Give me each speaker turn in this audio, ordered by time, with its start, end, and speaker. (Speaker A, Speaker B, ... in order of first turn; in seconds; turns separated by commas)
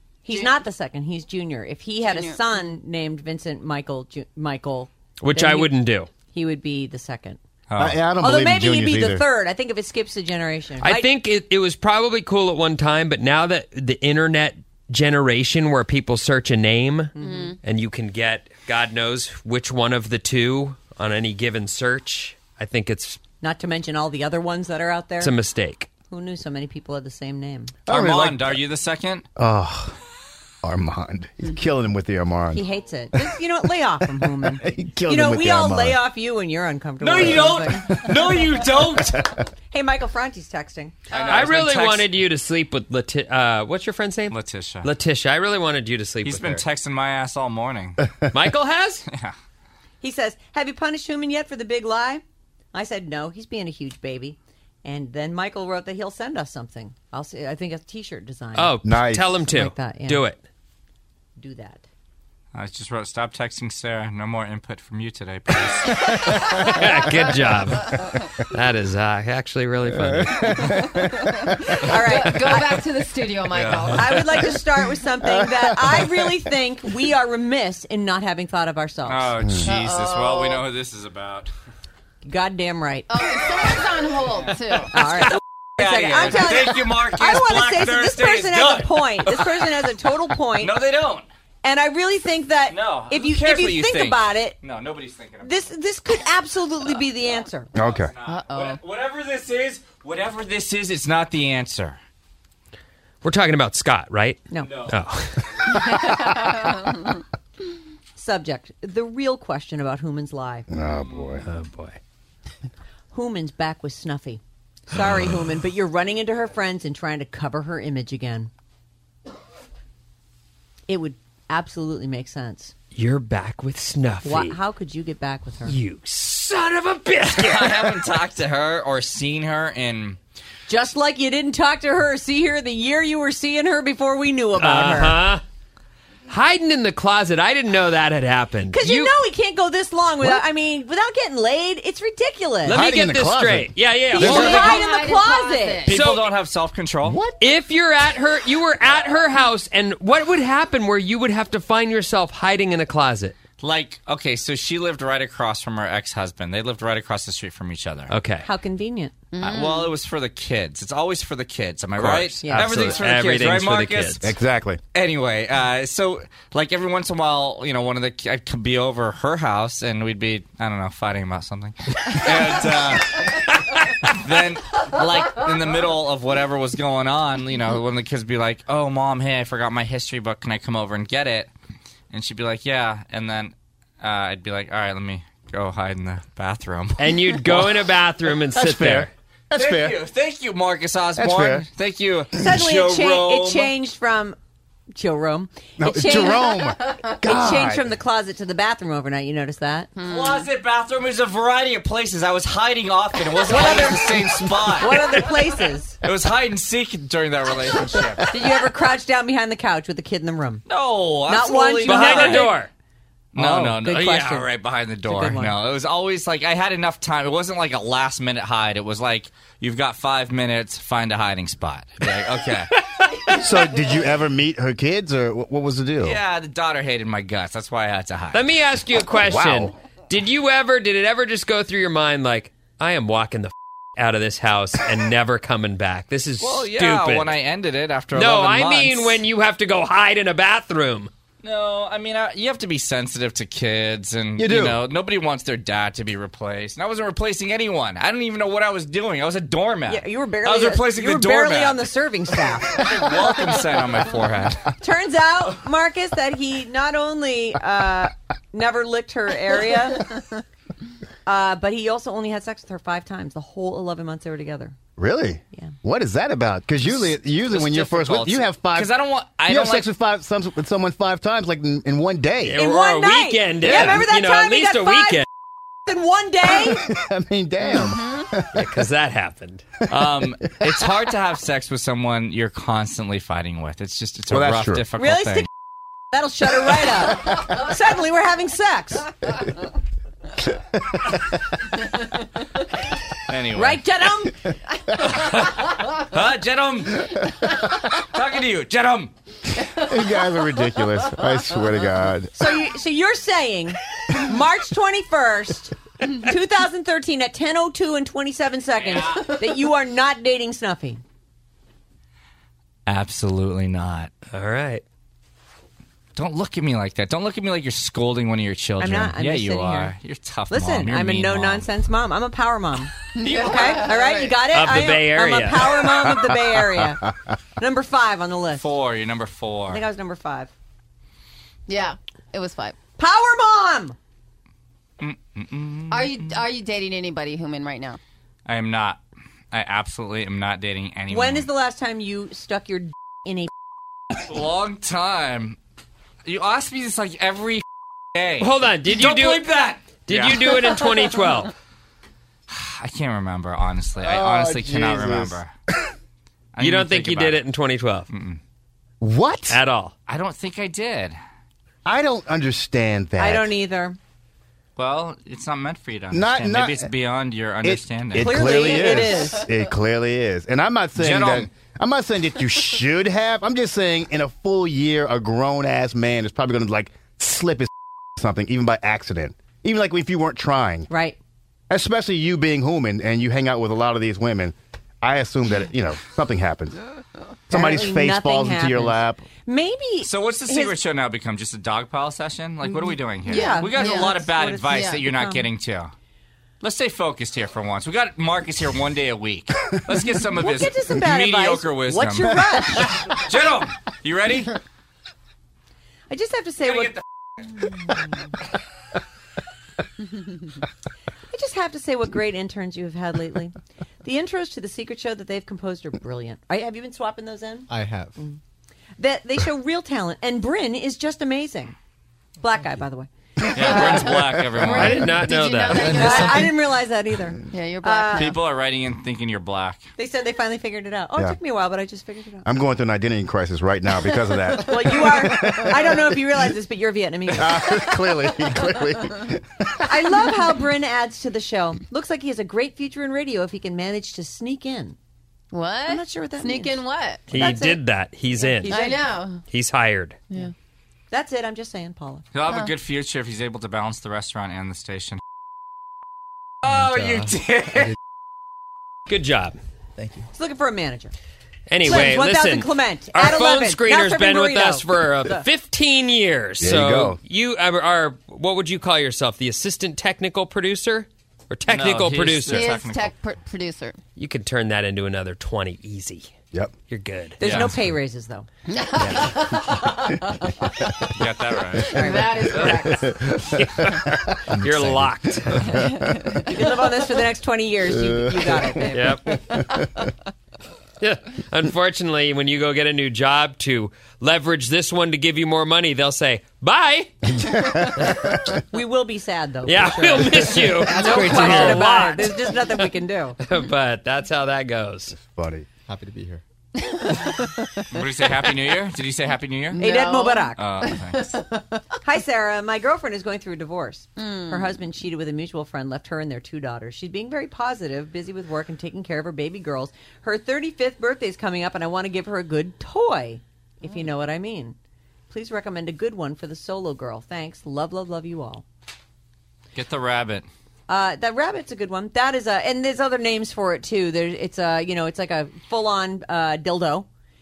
Speaker A: 0.2-5.7, Speaker B: 0.3-0.6, Speaker B: 2.0-2.4, Speaker C: 5.2-6.1, Speaker A: 6.2-7.4, Speaker D: 7.7-8.0, Speaker E: 7.8-9.3, Speaker A: 8.2-11.1, Speaker C: 10.8-23.2, Speaker A: 17.2-17.6, Speaker B: 17.2-17.6, Speaker A: 23.4-25.3, Speaker C: 25.2-25.9, Speaker A: 26.1-27.8, Speaker E: 27.9-28.6, Speaker D: 27.9-29.2, Speaker E: 29.4-30.0, Speaker E: 30.6-32.6, Speaker A: 32.5-38.4, Speaker E: 34.4-36.0, Speaker D: 37.0-39.3, Speaker E: 37.2-39.3, Speaker A: 39.7-41.0, Speaker D: 41.1-42.2, Speaker C: 41.2-46.6, Speaker D: 44.3-44.9, Speaker D: 46.2-48.0, Speaker C: 48.3-49.1, Speaker D: 49.1-49.4, Speaker A: 50.0-52.2, Speaker A: 52.7-58.8, Speaker C: 58.5-60.4, Speaker E: 58.8-59.4, Speaker A: 59.5-60.3, Speaker A: 61.4-61.9, Speaker D: 62.5-66.6, Speaker C: 65.9-70.9, Speaker E: 66.1-67.3, Speaker E: 69.9-72.6, Speaker B: 70.8-71.3, Speaker A: 71.7-72.8, Speaker B: 72.1-74.5, Speaker D: 73.5-74.1, Speaker A: 73.9-79.3, Speaker E: 75.2-76.4, Speaker D: 79.1-81.5, Speaker E: 79.4-79.7, Speaker B: 79.7-80.6, Speaker A: 82.2-83.1, Speaker B: 83.1-85.0, Speaker D: 84.3-84.5, Speaker A: 84.9-90.7, Speaker D: 85.2-89.7, Speaker D: 90.5-91.3, Speaker A: 91.6-94.6, Speaker D: 92.7-95.7, Speaker A: 95.4-97.7, Speaker E: 97.7-98.1, Speaker D: 97.8-102.0, Speaker B: 98.2-98.8, Speaker C: 103.2-106.1, Speaker A: 104.5-104.9, Speaker D: 104.6-105.8, Speaker B: 105.8-107.2, Speaker A: 108.2-110.7, Speaker E: 110.7-111.5, Speaker D: 111.0-111.4, Speaker C: 111.4-112.0, Speaker A: 113.1-118.5, Speaker A: 120.9-122.7, Speaker C: 122.9-124.6, Speaker A: 124.2-125.8, Speaker C: 125.7-128.1, Speaker D: 127.2-130.2, Speaker A: 130.7-135.2, Speaker C: 134.6-135.4, Speaker C: 136.3-139.1, Speaker A: 138.7-142.8, Speaker C: 142.7-144.7, Speaker E: 142.7-143.8, Speaker A: 144.1-146.0, Speaker D: 144.2-144.8, Speaker B: 144.2-146.0, Speaker D: 145.9-147.2, Speaker C: 145.9-146.2, Speaker E: 147.1-147.4, Speaker C: 147.4-153.4, Speaker D: 153.6-158.2, Speaker C: 158.1-158.5, Speaker A: 158.4-159.2, Speaker B: 159.3-159.9, Speaker D: 159.4-164.3, Speaker A: 162.4-163.0, Speaker C: 162.5-164.3, Speaker E: 164.2-164.8, Speaker D: 164.9-173.5, Speaker D: 174.1-181.5, Speaker D: 182.1-187.4, Speaker C: 187.0-189.1, Speaker E: 188.5-190.0, Speaker D: 189.5-193.7, Speaker E: 191.2-191.7, Speaker A: 192.4-194.4, Speaker A: 194.9-199.9, Speaker E: 195.8-197.9, Speaker B: 200.0-200.5, Speaker D: 200.0-205.4, Speaker A: 203.4-206.0, Speaker D: 206.0-208.3, Speaker A: 208.3-210.7, Speaker D: 210.7-212.6, Speaker A: 211.3-212.6, Speaker C: 211.8-212.7, Speaker D: 213.3-222.7, Speaker E: 213.4-213.8, Speaker A: 213.5-214.5, Speaker A: 215.0-215.6, Speaker C: 223.0-223.6, Speaker E: 223.3-226.2, Speaker D: 226.0-228.5, Speaker C: 228.3-237.4, Speaker E: 229.2-229.7, Speaker D: 236.4-239.2, Speaker C: 238.1-241.1, Speaker D: 241.4-251.9, Speaker E: 244.4-244.8, Speaker A: 249.9-252.9, Speaker D: 252.7-254.7, Speaker A: 254.8-260.2, Speaker A: 261.3-264.8, Speaker E: 265.0-268.9, Speaker D: 267.0-269.9, Speaker E: 269.4-272.6, Speaker C: 272.4-275.3, Speaker A: 272.5-275.2, Speaker A: 275.9-276.9, Speaker E: 276.5-278.7, Speaker B: 277.8-278.2, Speaker C: 278.5-279.7, Speaker D: 279.9-285.5, Speaker E: 284.3-284.9, Speaker A: 285.0-285.5, Speaker A: 286.1-289.1, Speaker E: 290.4-291.4, Speaker D: 293.3-293.8, Speaker A: 293.5-294.4, Speaker D: 295.0-299.1, Speaker E: 299.8-302.3, Speaker A: 302.4-311.0, Speaker D: 308.8-309.4, Speaker D: 312.9-314.1, Speaker C: 314.3-314.8, Speaker D: 316.2-321.7, Speaker A: 318.8-319.9, Speaker A: 320.5-328.7, Speaker B: 323.1-324.4, Speaker C: 324.5-325.9, Speaker E: 326.0-326.9, Speaker D: 328.6-329.8, Speaker A: 329.7-330.5, Speaker B: 331.7-332.8, Speaker A: 333.0-334.0, Speaker D: 335.0-336.5, Speaker B: 335.9-338.0, Speaker D: 338.5-339.0, Speaker D: 339.5-341.5, Speaker A: 341.1-343.5, Speaker D: 344.2-345.6, Speaker D: 346.2-351.0, Speaker C: 348.4-349.5, Speaker C: 350.1-351.5, Speaker D: 352.5-355.5, Speaker E: 354.0-355.4, Speaker D: 356.5-357.4, Speaker C: 356.6-358.1, Speaker D: 358.1-358.4, Speaker E: 359.0-359.6, Speaker C: 359.5-359.9, Speaker D: 360.1-361.2, Speaker E: 361.9-363.5, Speaker A: 363.2-364.0, Speaker D: 364.8-368.6, Speaker E: 366.1-366.9, Speaker E: 367.6-380.9, Speaker A: 368.1-369.5, Speaker B: 368.6-369.4, Speaker D: 371.0-371.5, Speaker A: 380.9-381.2, Speaker E: 381.7-386.8, Speaker E: 387.5-389.2, Speaker A: 387.5-390.8, Speaker D: 390.0-395.9, Speaker A: 393.2-395.5, Speaker B: 393.3-395.0, Speaker D: 396.6-404.6, Speaker A: 400.4-403.1, Speaker A: 406.1-407.0, Speaker D: 406.6-407.0, Speaker A: 407.6-408.3, Speaker A: 411.3-418.4, Speaker F: 417.7-418.2, Speaker A: 419.0-421.8, Speaker A: 422.4-424.2, Speaker D: 423.5-425.1, Speaker B: 423.7-426.5, Speaker C: 424.6-426.2, Speaker F: 425.7-426.5, Speaker A: 425.9-428.4, Speaker B: 427.5-428.4, Speaker D: 428.1-429.8, Speaker A: 430.0-432.5, Speaker E: 432.4-436.1, Speaker A: 434.6-438.1, Speaker E: 437.3-439.9, Speaker A: 439.8-445.0, Speaker B: 445.5-447.4, Speaker A: 445.9-446.8, Speaker C: 447.3-448.8, Speaker A: 447.3-449.2, Speaker B: 448.7-449.4, Speaker C: 449.4-450.2, Speaker A: 451.1-452.2, Speaker D: 452.3-455.2, Speaker D: 456.6-457.9, Speaker F: 456.7-457.9, Speaker C: 459.1-459.6, Speaker F: 460.0-460.3, Speaker A: 460.3-461.1, Speaker C: 461.7-472.8, Speaker A: 461.8-465.5, Speaker E: 466.6-467.2, Speaker D: 471.7-473.1, Speaker B: 472.5-474.0, Speaker C: 474.2-476.3, Speaker C: 476.9-477.4, Speaker A: 477.4-478.5, Speaker D: 477.4-477.8, Speaker B: 478.7-480.9, Speaker E: 479.1-479.3, Speaker D: 481.2-482.0, Speaker A: 481.9-482.6, Speaker B: 481.9-483.2, Speaker C: 482.6-482.9, Speaker E: 482.6-486.5, Speaker C: 483.4-485.7, Speaker B: 485.9-486.2, Speaker A: 486.4-489.2, Speaker E: 487.9-490.1, Speaker C: 488.9-489.4, Speaker C: 491.0-497.4, Speaker E: 497.3-498.6, Speaker A: 498.7-503.4, Speaker C: 499.6-505.2, Speaker F: 501.0-501.8, Speaker E: 505.1-505.7, Speaker F: 505.9-506.4, Speaker B: 506.8-507.9, Speaker D: 507.9-509.8, Speaker B: 509.7-511.8, Speaker A: 509.8-510.6, Speaker D: 510.6-511.2, Speaker A: 512.0-524.8, Speaker B: 514.2-514.7, Speaker A: 525.3-528.6, Speaker D: 529.8-530.5, Speaker A: 530.9-537.1